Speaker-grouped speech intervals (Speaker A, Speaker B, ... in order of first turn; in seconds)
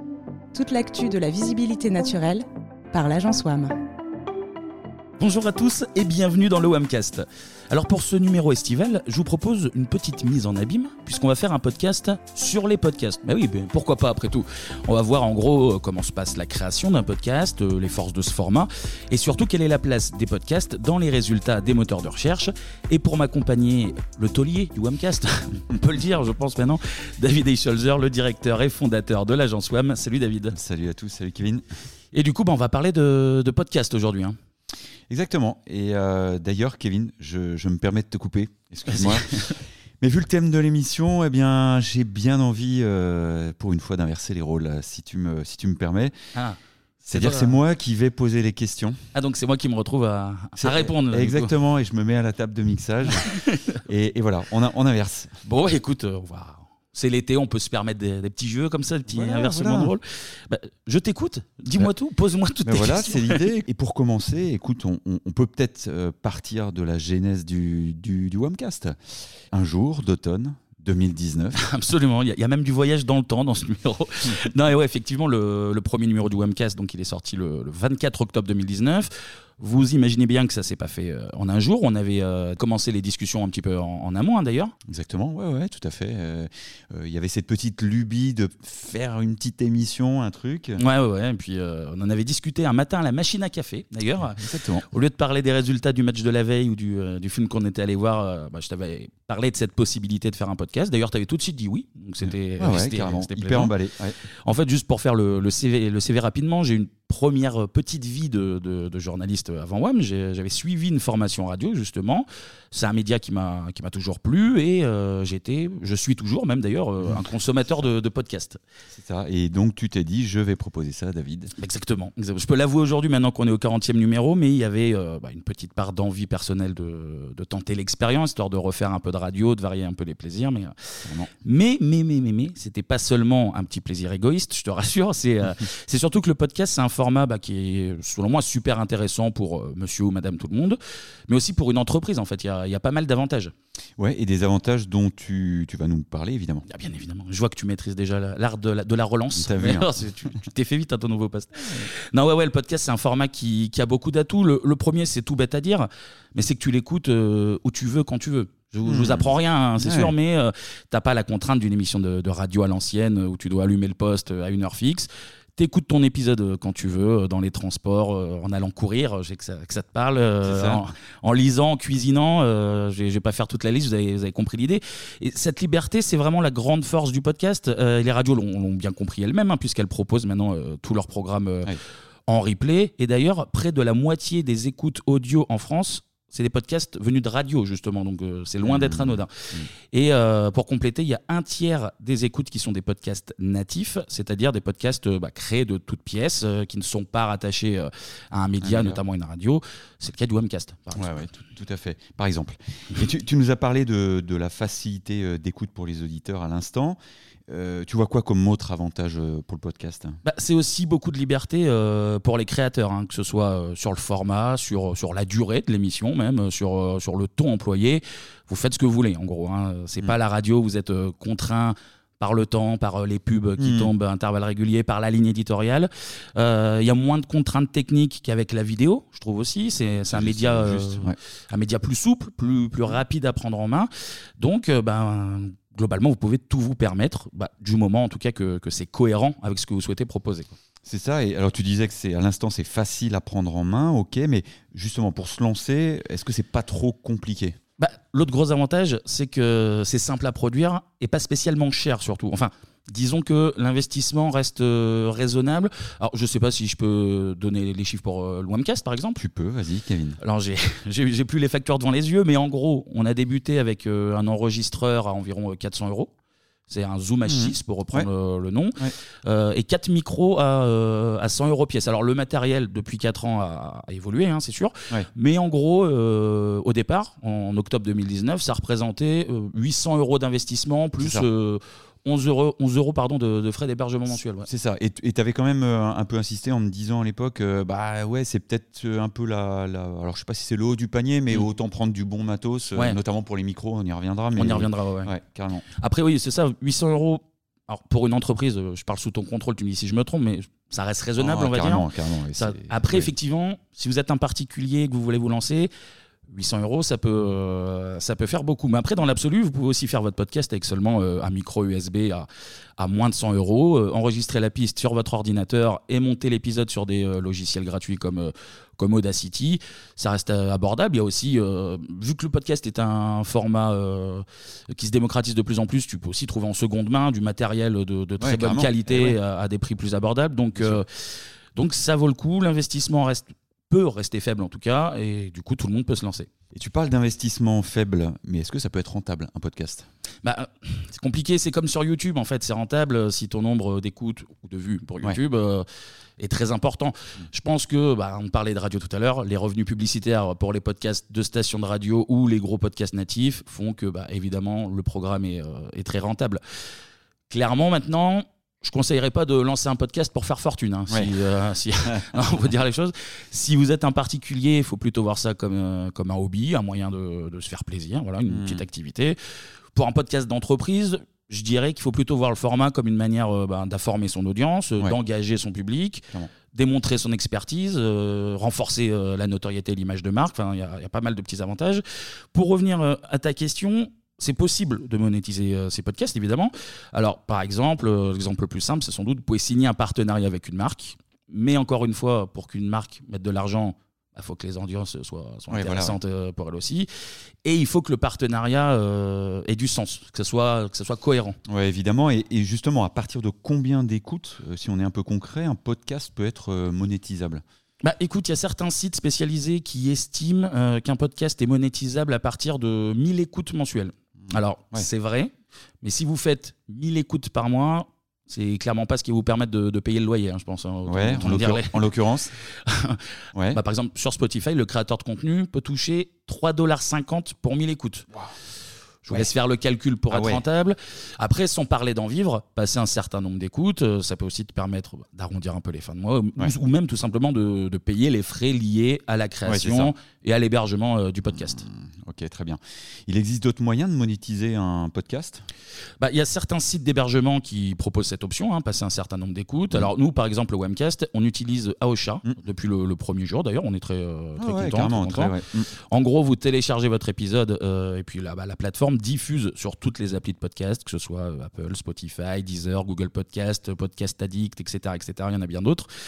Speaker A: 0.5-3.7
Speaker B: 5.2-30.6, 32.1-34.4, 38.9-39.6, 46.3-47.5, 49.1-51.5, 53.1-53.8, 55.4-63.4, 71.5-84.7, 90.8-103.7, 104.4-118.6, 121.6-143.5, 146.7-181.7, 182.3-201.3, 210.2-240.5, 247.8-259.2, 260.2-266.1, 266.7-284.5, 294.3-295.1, 295.7-305.7, 306.3-312.3, 312.8-336.3, 340.2-345.6, 346.2-356.6, 357.3-369.2, 369.7-396.9, 397.4-401.4, 407.8-428.1, 429.1-441.7, 446.0-465.9
Speaker C: 30.5-31.6, 35.1-46.1, 47.1-49.0, 50.6-55.3, 59.1-59.9, 62.6-71.6, 84.9-90.8, 94.3-94.8, 102.6-104.2, 118.9-121.5, 131.0-131.3, 144.0-146.6, 149.3-149.9, 158.8-159.3, 159.8-160.1, 170.4-170.8, 188.6-189.7, 198.6-199.0, 200.9-210.2, 223.6-223.9, 230.1-231.2, 240.8-247.6, 259.2-260.2, 267.2-268.1, 281.0-281.2, 284.4-295.6, 301.2-303.1, 328.2-329.2, 336.5-339.9, 368.3-368.6, 395.5-395.9, 401.4-407.4, 414.2-414.9, 420.9-422.3, 430.1-430.4, 439.4-439.9, 441.3-445.4, 454.4-455.7